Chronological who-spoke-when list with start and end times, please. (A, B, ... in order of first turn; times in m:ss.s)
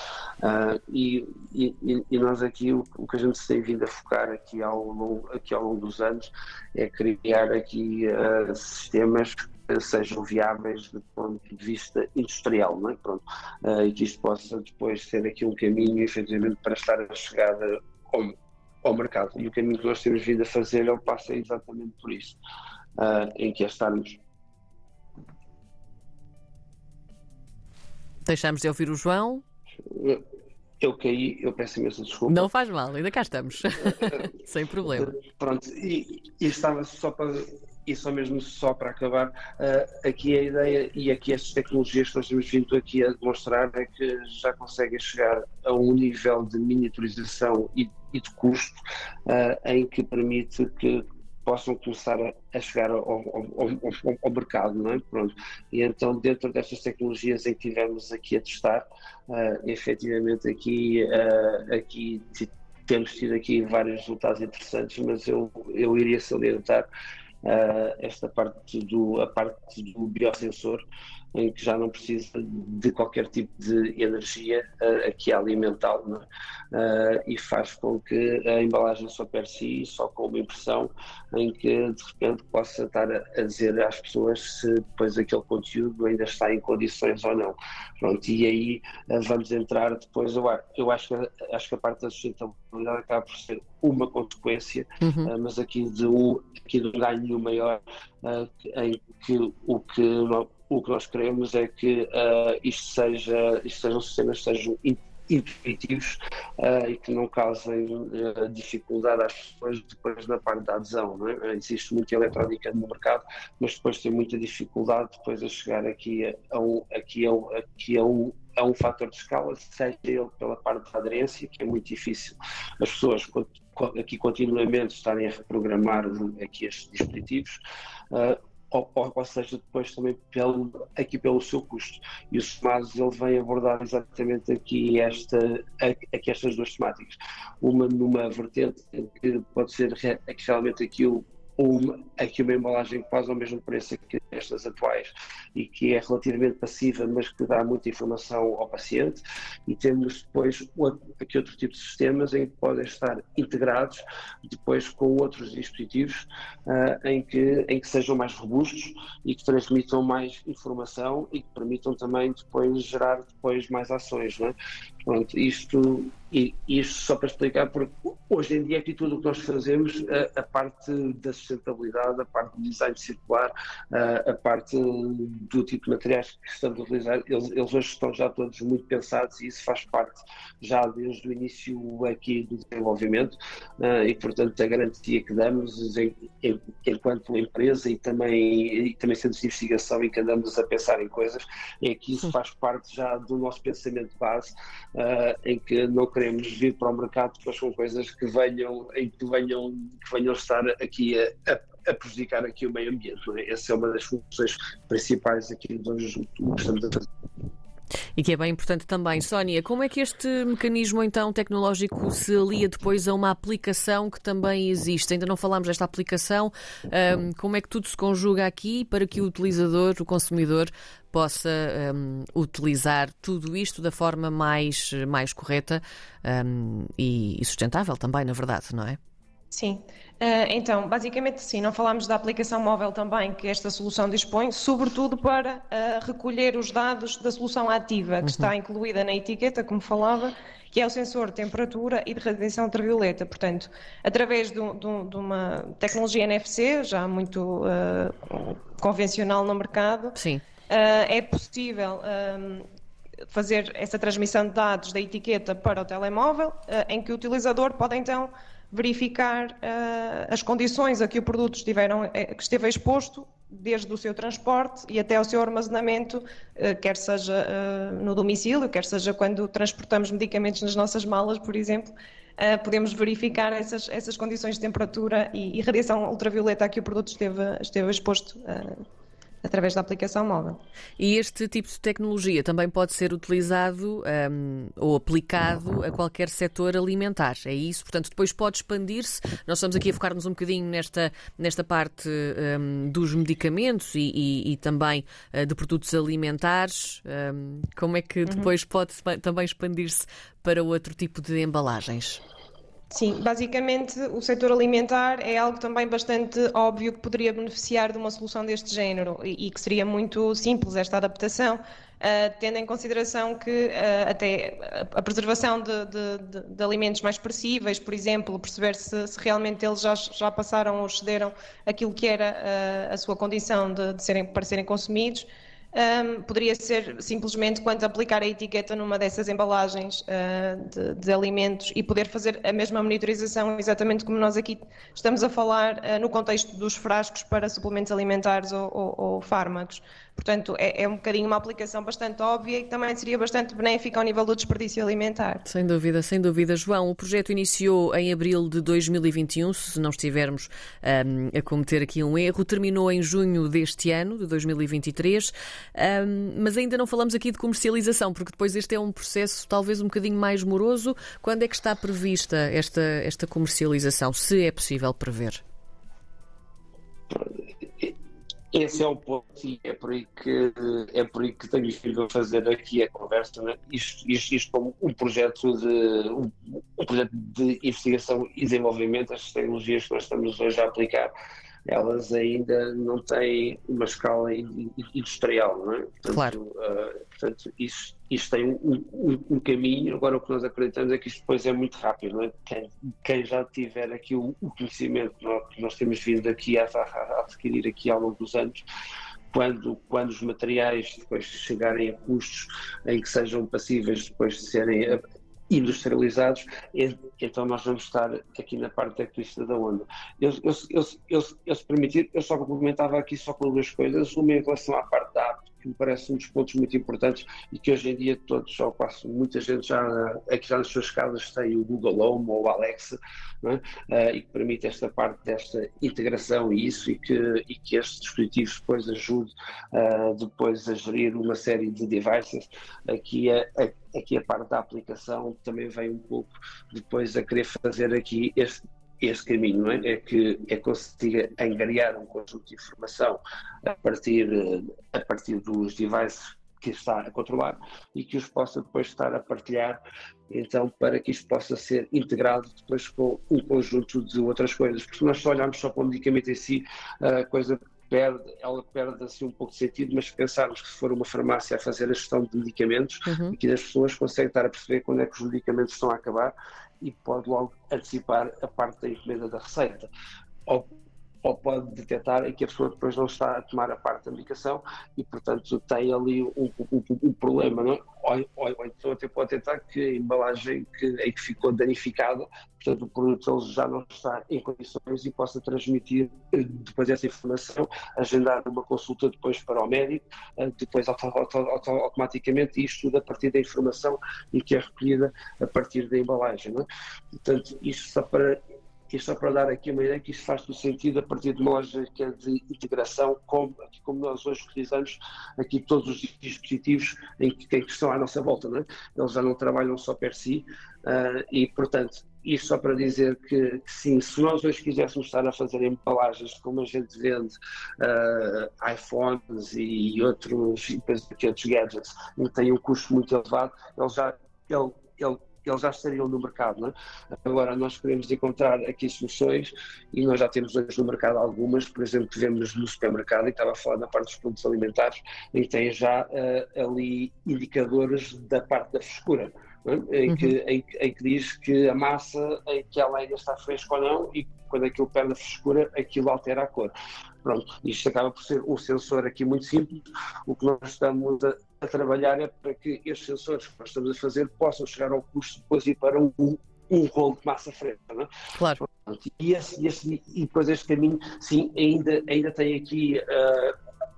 0:00.4-0:22.4 A
0:23.0-0:24.2 A
0:28.2-0:29.4 B
0:29.8-0:30.2 A
0:30.8-0:32.5 A
0:32.3-0:35.1 B
0:35.0-1:06.9 A
1:07.4-2:07.6 A
1:35.0-1:35.3 B
2:08.1-3:27.0 A
3:28.2-3:49.0 B
3:49.5-4:12.6 C
3:58.2-3:58.5 B
4:10.2-4:10.4 B
4:13.3-4:38.8 C
4:39.4-4:40.6 C
4:41.0-5:02.2 B
4:58.2-4:58.5 C
5:02.9-5:45.4 C
5:45.5-6:05.4 B
6:07.1-6:08.0 A
6:08.5-6:21.1 A
6:21.7-6:38.6 A
6:26.1-6:26.4 B
6:39.3-7:49.9 A
7:43.1-7:43.4 B
7:51.2-8:46.7 A
8:47.2-9:06.7 A
9:00.1-9:00.4 B
9:07.2-9:18.1 A
9:18.4-9:18.6 B
9:18.8-9:23.6 A